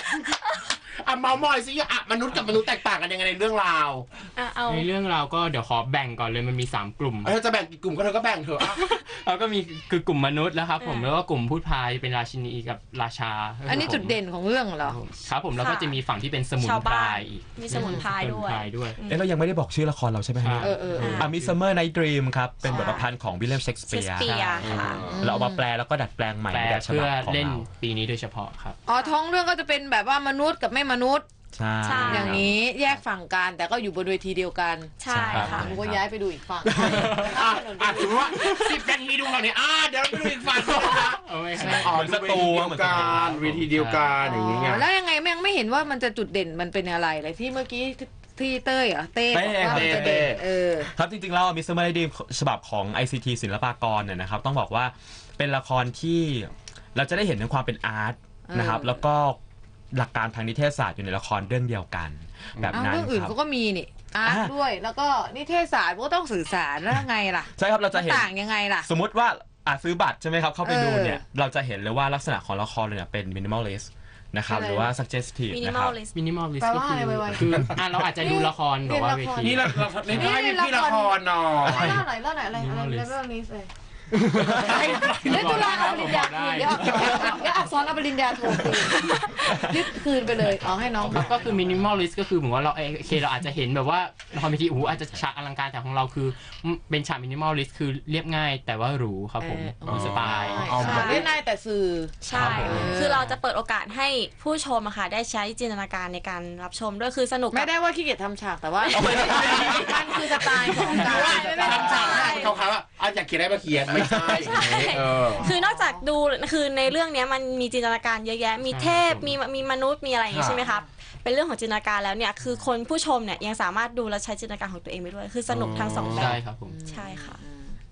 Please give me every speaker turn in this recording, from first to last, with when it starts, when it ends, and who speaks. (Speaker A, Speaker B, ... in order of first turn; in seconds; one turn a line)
Speaker A: 0.9-4.0
Speaker B: 4.3-4.9
Speaker C: 4.7-7.4
Speaker A: 7.2-8.8
Speaker C: 8.6-14.2
Speaker B: 10.8-11.1
Speaker D: 13.7-15.0
Speaker C: 14.8-18.9
Speaker B: 15.5-16.0
Speaker B: 16.6-19.2
Speaker D: 17.7-18.0
Speaker E: 19.1-24.5
Speaker C: 20.4-21.6
Speaker D: 20.6-21.2
Speaker B: 21.0-21.3
Speaker D: 22.6-23.1
Speaker B: 22.7-23.0
Speaker B: 23.9-25.0
Speaker C: 24.2-25.0
Speaker A: 24.6-25.3
Speaker D: 25.0-25.6
Speaker E: 25.2-27.7
Speaker C: 26.5-28.8
Speaker D: 28.9-31.2
Speaker E: 31.5-32.5
Speaker B: 31.8-32.4
Speaker D: 32.0-38.8
Speaker B: 35.0-35.8
Speaker E: 35.1-36.0
Speaker C: 35.3-35.6
Speaker A: 36.7-44.9
Speaker C: 36.8-37.3
Speaker C: 40.9-42.1
Speaker E: 41.8-43.2
Speaker C: 42.8-44.2
Speaker D: 44.2-50.9
Speaker E: 49.3-50.4
Speaker A: 49.3-50.4
Speaker E: 50.9-59.4
Speaker D: 58.5-59.0
Speaker E: 59.9-63.4
Speaker A: 62.5-62.8
Speaker D: 62.7-68.9
Speaker E: 64.2-64.5
Speaker E: 67.5-68.3
Speaker E: 68.8-76.0
Speaker D: 70.6-71.2
Speaker D: 74.5-74.9
Speaker B: 75.5-76.1
Speaker C: 76.1-80.3
Speaker D: 76.6-83.7
Speaker A: 79.4-82.0
Speaker C: 81.7-82.0
Speaker C: 82.6-83.1
Speaker A: 84.1-85.6
Speaker D: 84.4-91.3
Speaker C: 84.6-87.3
Speaker A: 86.8-87.5
Speaker C: 91.0-101.2
Speaker D: 99.4-103.2
Speaker A: 99.8-101.3
Speaker B: 100.8-101.2
Speaker B: 102.2-107.7
Speaker C: 102.3-103.4
Speaker D: 107.5-112.6
Speaker B: 108.8-109.7
Speaker A: 108.9-115.5
Speaker B: 110.9-112.5
Speaker D: 114.0-116.1
Speaker B: 114.2-127.4
Speaker C: 118.7-119.4
Speaker A: 120.3-120.7
Speaker A: 125.5-126.4
Speaker C: 126.1-126.7
Speaker D: 126.7-127.8